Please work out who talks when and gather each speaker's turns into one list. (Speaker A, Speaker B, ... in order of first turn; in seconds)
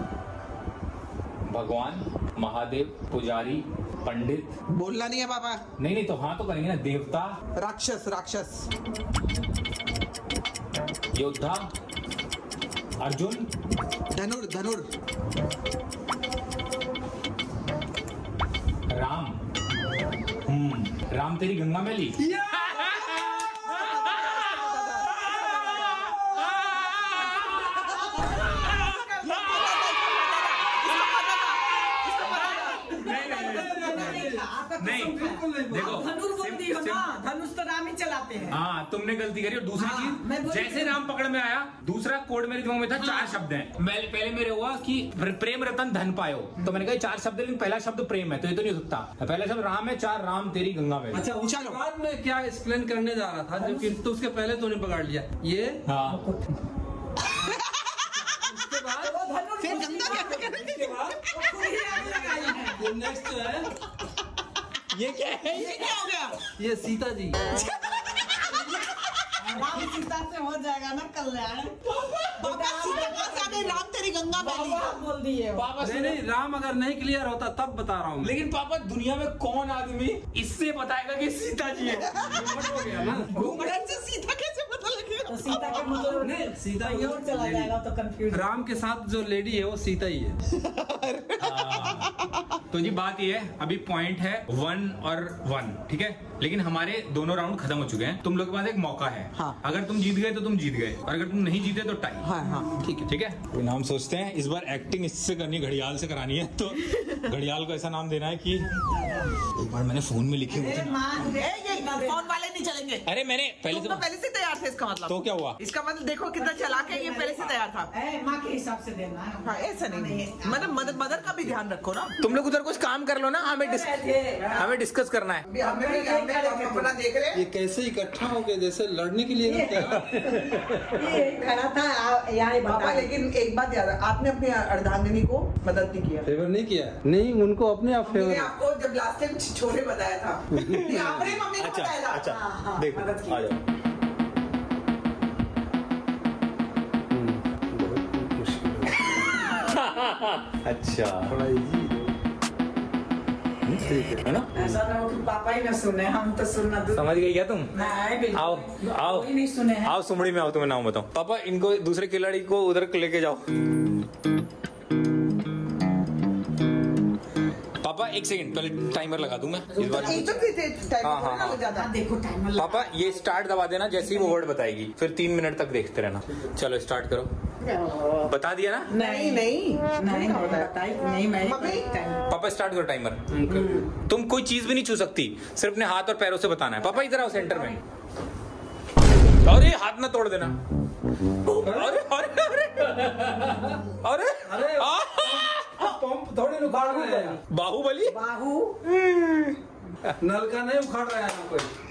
Speaker A: 1.5-4.5, 5.8-7.4, 11.1-11.7, 13.0-13.4, 18.9-19.4, 20.5-22.2, 22.7-23.4, 25.3-27.9, 28.5-29.0, 32.4-33.9, 34.8-37.1, 38.5-51.2, 55.9-56.2, 64.9-65.8, 75.6-76.2, 78.2-82.5, 91.4-92.1, 92.7-102.3, 103.1-108.7, 109.5-111.0, 113.1-114.0, 115.1-115.6, 122.2-124.0, 124.5-125.5, 140.7-143.6, 149.2-151.3, 153.7-154.5, 156.9-157.7, 158.3-159.3, 159.8-163.4, 167.8-170.3, 171.0-171.6, 172.6-177.3, 178.2-178.9, 182.3-183.2, 183.9-187.8, 189.4-190.6, 191.7-195.8, 197.4-198.2, 198.8-200.1
Speaker B: 4.7-5.6, 7.5-8.7, 14.1-14.9, 23.6-26.2, 27.8-33.0, 33.9-34.2, 51.4-51.8, 57.4-58.0, 59.6-61.1, 65.5-66.4, 72.2-74.9, 83.3-86.1, 90.5-92.5, 102.2-102.9, 106.9-107.2, 111.3-113.1, 113.7-117.9, 119.4-122.1, 124.4-124.7, 125.5-127.4, 132.7-136.3, 138.0-142.4, 170.0-171.9, 178.9-180.7, 181.4-181.9
Speaker C: 22.2-23.5, 25.4-26.9, 33.0-34.5, 35.2-36.1, 51.1-55.8, 58.2-59.3, 60.0-61.2, 61.9-63.7, 66.6-67.5, 75.8-78.3, 82.3-83.6, 86.0-87.7, 88.3-90.4, 127.3-131.2, 136.2-138.5, 140.5-141.4, 147.1-149.2, 151.3-152.1, 153.8-154.7, 183.3-183.8, 191.6-192.0, 194.5-197.4, 200.2-201.7
Speaker D: 32.2-38.6, 39.8-41.0, 42.9-43.4, 53.6-53.9, 56.0-56.5, 59.0-60.6, 61.3-62.9, 69.4-73.8, 74.3-75.7, 85.3-88.5, 102.4-102.7, 108.6-109.4, 110.5-112.3, 116.4-121.2, 123.6-124.7, 125.6-126.9, 129.4-133.1, 142.2-143.5, 154.6-157.1, 157.7-160.0, 169.7-170.5, 171.7-174.4, 177.7-178.2, 178.9-182.2, 183.5-183.9, 186.8-187.8, 198.1-198.8